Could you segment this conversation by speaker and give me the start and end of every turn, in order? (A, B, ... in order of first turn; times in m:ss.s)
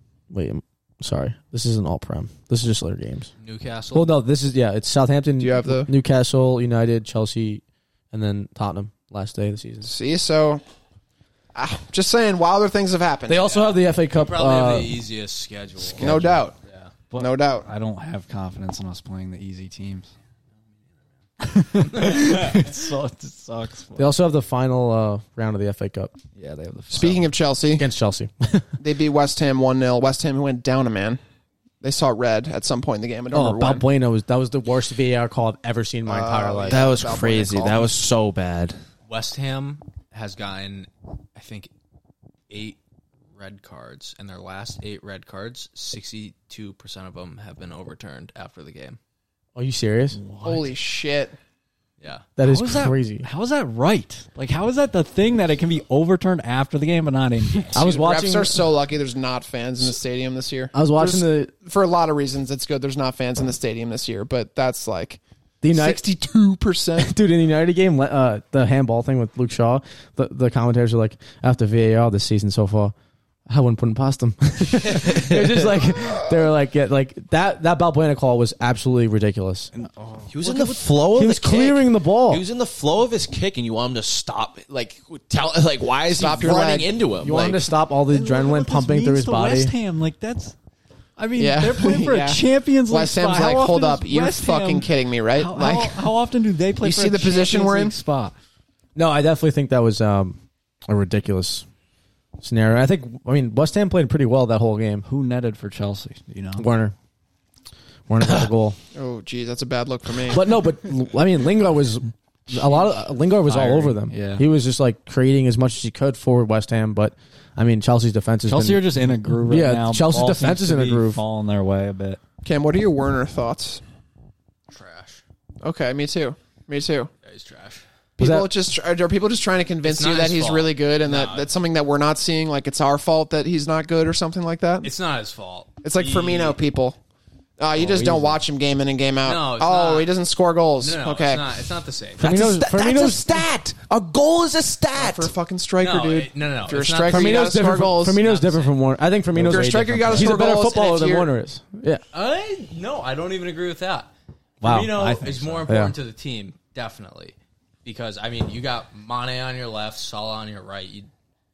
0:00.3-0:03.3 A
0:03.4-0:04.2 B
0:03.9-0:09.9 A
0:05.4-0:05.9 C
0:09.8-0:10.6 C
0:11.6-0:13.4 C
0:13.3-0:15.0 A
0:13.5-0:16.1 B
0:15.8-0:16.5 D
0:16.0-0:16.6 C
0:17.1-0:20.1 D
0:17.2-0:17.7 C
0:21.4-0:24.1 D
0:21.8-0:22.7 B
0:24.0-0:26.1 A
0:26.4-0:27.3 D
0:26.9-0:27.9 C
0:27.8-0:28.7 A
0:28.8-0:31.2 C
0:31.8-0:33.8 C
0:33.3-0:36.8 A
0:36.1-0:37.9 C
0:36.7-0:38.8 E
0:39.1-0:41.7 B
0:42.5-0:42.8 B
0:43.4-0:49.0 B
0:49.6-0:50.2 A
0:50.2-0:50.7 D
0:50.4-0:51.4 C
0:52.0-0:52.3 B
0:52.4-0:53.3 A
0:52.4-0:57.8 D
0:57.7-0:58.6 A
0:57.8-1:05.2 C
1:00.7-1:01.5 A
1:05.6-1:06.0 A
1:05.7-1:07.1 C
1:07.0-1:12.9 A
1:13.5-1:19.7 A
1:14.9-1:15.6 E
1:19.7-1:20.9 D
1:20.3-1:27.7 E
1:21.1-1:22.4 A
1:26.1-1:26.9 C
1:27.2-1:29.7 A
1:28.1-1:30.6 D
1:31.2-1:38.4 D
1:31.4-1:36.1 C
1:36.8-1:38.0 C
1:39.0-1:41.7 A
1:42.4-1:45.1 A
1:45.0-1:46.7 D
1:46.6-1:47.0 A
1:48.1-1:48.8 A
1:48.9-1:50.4 C
1:50.3-2:01.2 A
1:53.5-1:54.5 D
1:58.5-2:02.2 D
2:02.4-2:03.8 C
2:04.7-2:05.2 B
2:05.6-2:07.1 C
2:07.2-2:07.8 B
2:08.2-2:14.9 C
2:08.2-2:08.5 A
2:09.8-2:11.5 B
2:14.8-2:16.6 B
2:15.8-2:17.0 C
2:17.6-2:21.5 C
2:17.8-2:18.4 D
2:19.2-2:20.1 B
2:20.8-2:22.2 B
2:22.2-2:23.4 A
2:22.2-2:25.3 E
2:24.9-2:28.2 C
2:25.8-2:28.8 B
2:27.1-2:32.0 A
2:29.4-2:31.3 C
2:32.1-2:41.1 B
2:34.6-2:35.2 A
2:34.9-2:35.7 D
2:35.7-2:35.9 A